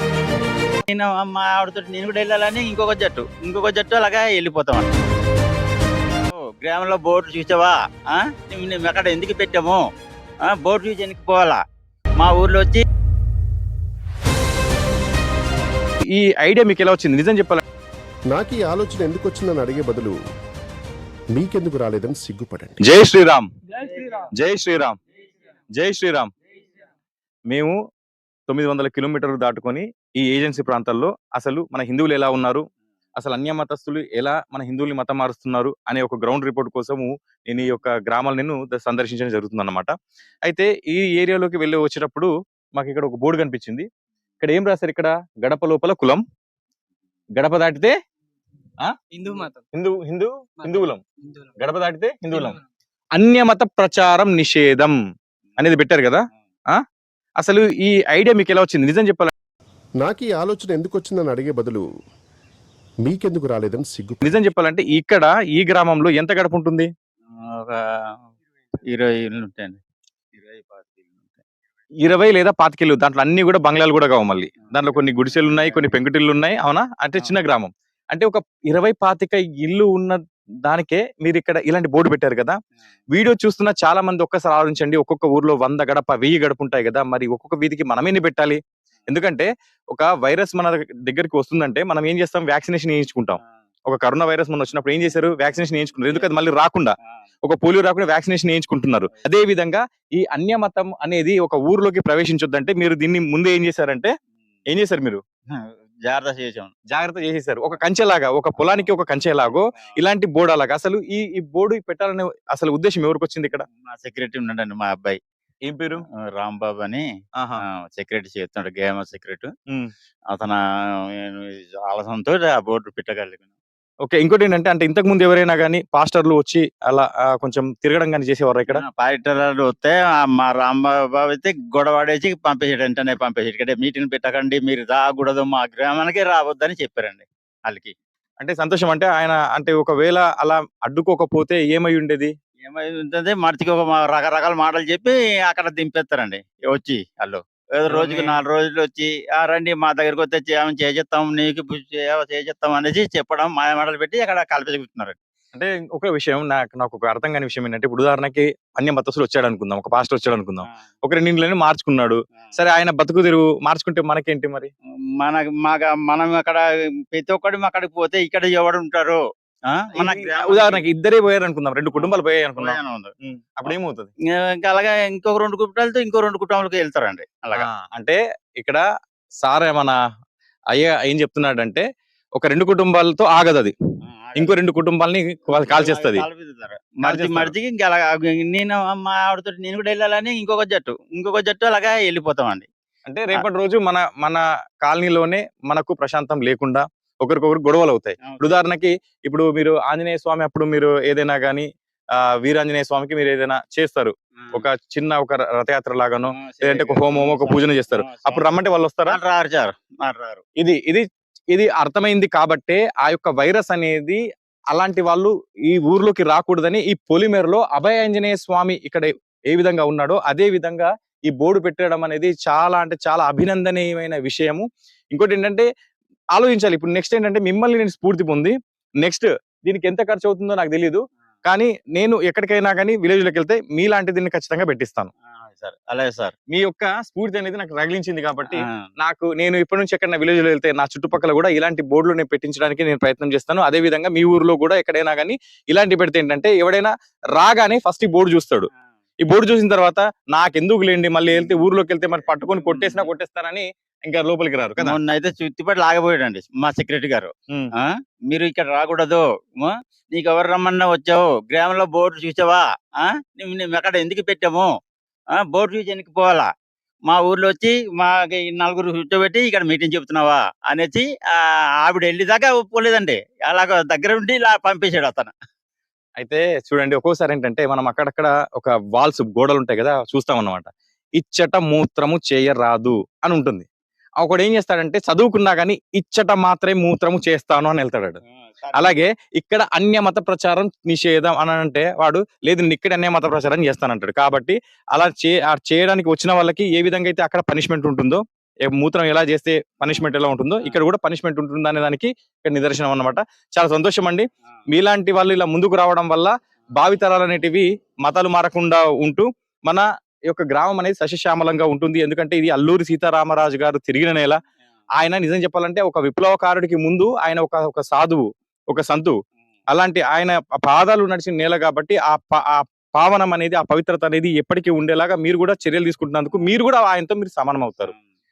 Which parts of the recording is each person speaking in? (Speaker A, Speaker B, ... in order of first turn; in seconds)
Speaker A: 0.9-4.9, 6.6-9.8, 10.4-11.6, 12.2-12.8, 67.3-68.1, 68.9-69.8, 70.3-71.4, 74.7-75.9, 105.5-106.7, 108.6-108.9, 113.7-115.2, 116.3-117.0, 117.6-119.5, 120.3-120.6, 121.1-123.4, 128.7-137.9, 142.6-155.2, 165.2-169.2, 169.7-170.8, 171.9-173.1, 174.3-177.7, 184.1-184.5, 185.6-192.7, 198.2-198.6, 206.3-208.5, 209.1-210.4, 235.4-236.3, 238.5-238.9, 251.3-251.6, 252.3-253.1, 254.8-264.7, 265.4-266.5, 267.1-275.3, 288.4-289.0
Speaker B: 16.1-17.6, 22.8-24.9, 25.8-26.3, 27.5-27.8, 28.5-32.6, 33.2-39.9, 40.5-43.9, 44.4-46.2, 47.4-47.9, 48.8-51.0, 51.5-52.6, 53.1-55.0, 55.6-56.8, 57.4-59.3, 64.2-66.9, 72.0-82.6, 83.1-104.1, 104.7-105.2, 106.9-113.6, 115.7-116.0, 124.0-128.8, 138.4-142.3, 147.9-148.3, 155.5-164.7, 170.0-174.1, 177.5-178.8, 179.4-180.0, 180.7-181.8, 182.4-183.7, 184.3-186.2, 187.0-187.5, 193.1-209.2, 210.6-214.2, 214.7-225.7, 226.3-235.1, 236.5-248.7, 249.2-254.9, 276.2-280.7, 281.2-283.7, 284.2-288.2, 288.7-314.4, 315.0-319.1, 319.7-327.9
Speaker C: 18.3-20.1, 21.3-22.8, 60.0-61.8, 63.0-64.2